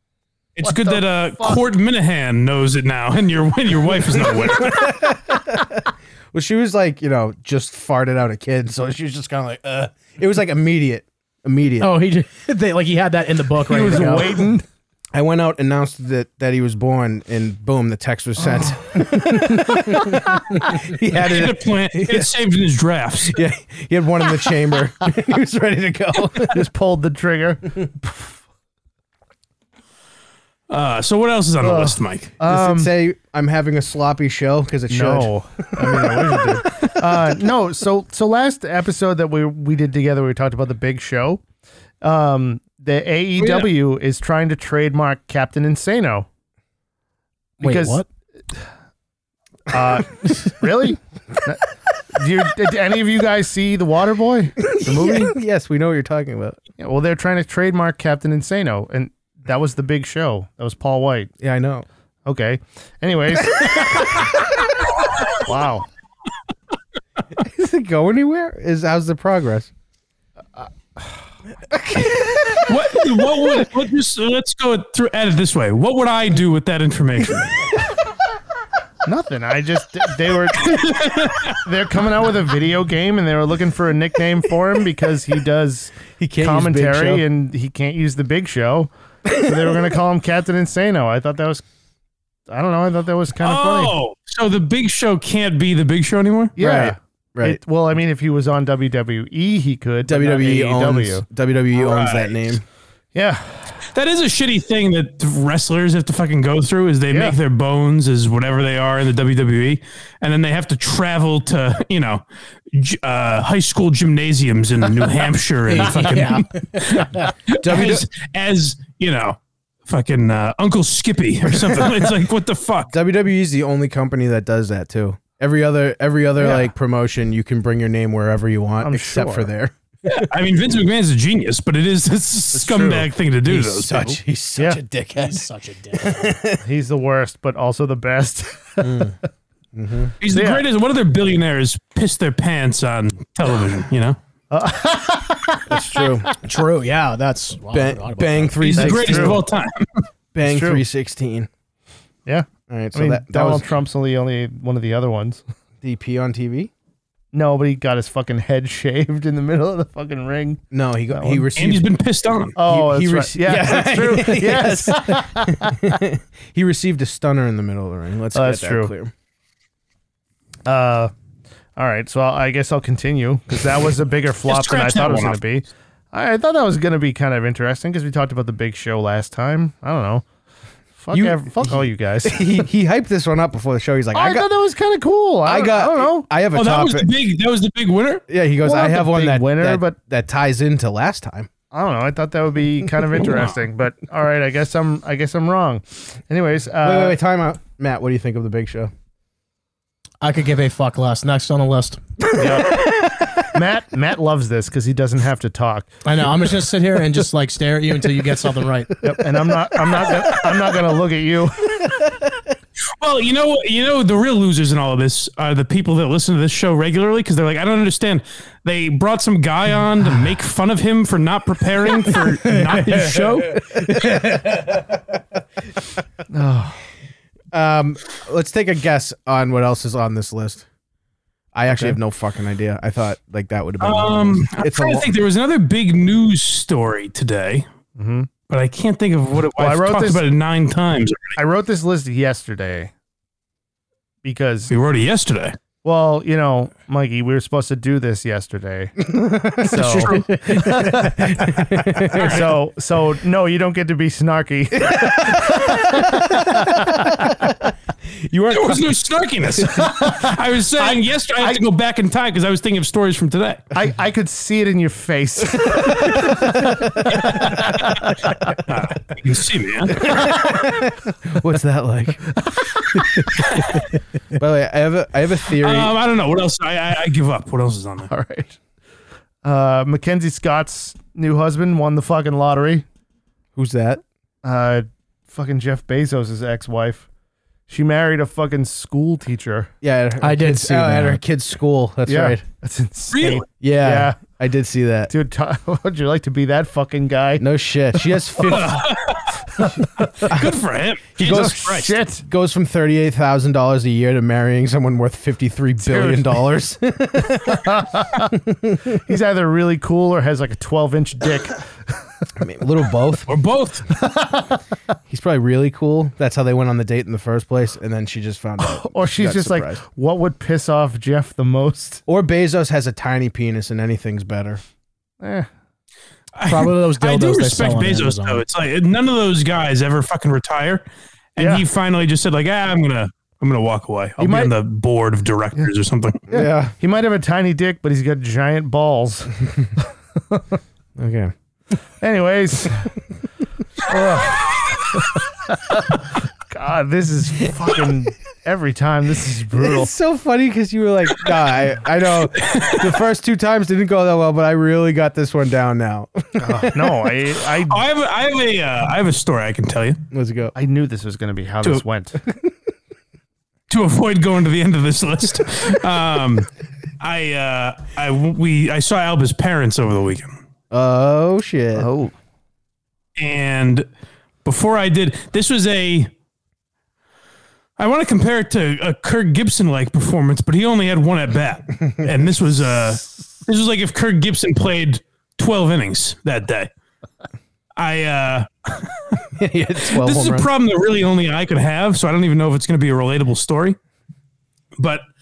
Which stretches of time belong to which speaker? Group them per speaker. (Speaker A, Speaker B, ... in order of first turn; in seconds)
Speaker A: 0.6-4.9, 21.1-23.4, 30.7-32.3, 43.4-43.7, 72.7-77.6, 80.6-81.6, 93.4-96.5, 101.8-102.5, 103.9-122.9, 130.1-134.2, 140.2-144.2, 148.6-150.1, 161.6-162.6, 174.5-175.4, 186.5-188.2, 193.2-193.6, 213.0-223.6, 233.8-237.7, 238.5-241.4, 244.7-245.6, 249.8-250.7, 252.1-252.5, 258.5-263.6, 267.2-268.1, 268.6-270.1, 273.4-273.8, 275.6-278.1, 293.1-293.4, 298.4-302.0, 313.3-313.9, 326.4-330.9, 331.4-336.2, 352.4-352.9, 357.7-360.0, 363.7-366.5, 367.0-370.4, 373.2-373.9, 374.4-376.1, 377.8-386.7, 387.8-389.2, 389.9-393.8, 394.8-395.0
Speaker B: 0.6-1.6, 13.7-14.7, 18.5-18.7, 26.5-28.3, 31.6-32.9, 34.9-41.4, 42.0-46.3, 47.6-48.0, 49.7-51.6, 52.1-55.4, 56.8-61.3, 62.2-64.2, 65.4-65.9, 70.6-71.0, 79.0-80.9, 81.6-91.6, 92.5-93.9, 96.6-101.2, 103.1-103.7, 107.1-107.4, 126.4-126.7, 128.8-129.5, 132.6-133.0, 136.6-139.1, 140.3-140.6, 144.5-146.3, 148.8-149.4, 150.4-150.8, 152.3-155.4, 157.3-161.5, 162.6-166.0, 168.3-168.9, 170.6-171.1, 171.8-180.2, 181.0-182.6, 184.1-186.3, 188.6-189.9, 191.7-197.2, 202.4-202.9, 203.5-205.9, 209.0-212.0, 226.3-226.8, 231.7-232.0, 237.9-238.3, 239.6-240.2, 241.4-242.9, 244.2-244.7, 245.8-257.4, 259.8-261.6, 263.7-268.5, 270.0-270.4, 272.4-273.1, 278.1-278.6, 279.4-282.9, 284.4-287.1, 287.7-289.7, 292.1-294.2, 295.1-298.2, 299.6-300.3, 301.2-302.2, 305.8-306.4, 307.4-308.3, 309.1-312.0, 314.0-314.6, 318.6-322.0, 325.2-325.5, 331.4-331.6, 334.2-334.5, 336.3-340.6, 342.0-342.9, 343.9-349.9, 356.4-357.8, 360.6-362.2, 371.8-372.1
Speaker C: 4.3-11.9, 15.1-22.3, 23.3-26.6, 32.4-36.7, 54.7-56.6, 61.4-61.9, 67.4-69.7, 71.7-72.7, 86.2-87.2, 96.6-97.6, 100.1-102.6, 117.6-118.1, 122.9-129.7, 132.6-136.6, 138.8-139.2, 139.7-140.1, 145.7-146.3, 147.7-149.4, 150.3-151.5, 152.7-153.7, 155.8-156.7, 160.7-161.8, 162.6-169.1, 181.1-184.5, 185.4-187.1, 188.3-191.5, 196.8-198.9, 223.7-224.6, 227.5-230.6, 231.5-235.1, 249.1-249.9, 251.0-252.4, 254.9-257.5, 258.2-258.9, 270.0-272.3, 273.0-273.4, 274.4-275.9, 283.6-284.0, 289.8-292.4, 293.6-295.1, 297.4-298.8, 301.2-301.6, 302.1-307.8, 308.4-308.9, 312.4-313.3, 315.1-319.8, 322.1-324.6, 336.3-336.7, 341.0-341.3, 349.6-356.9, 360.1-360.6, 370.7-371.9, 389.4-390.5
Speaker D: 11.8-14.4, 47.6-48.0, 115.7-117.3, 135.2-136.3, 146.4-148.6, 200.2-202.3, 206.1-209.0, 224.0-224.7, 250.1-251.0, 290.2-291.2, 326.5-328.4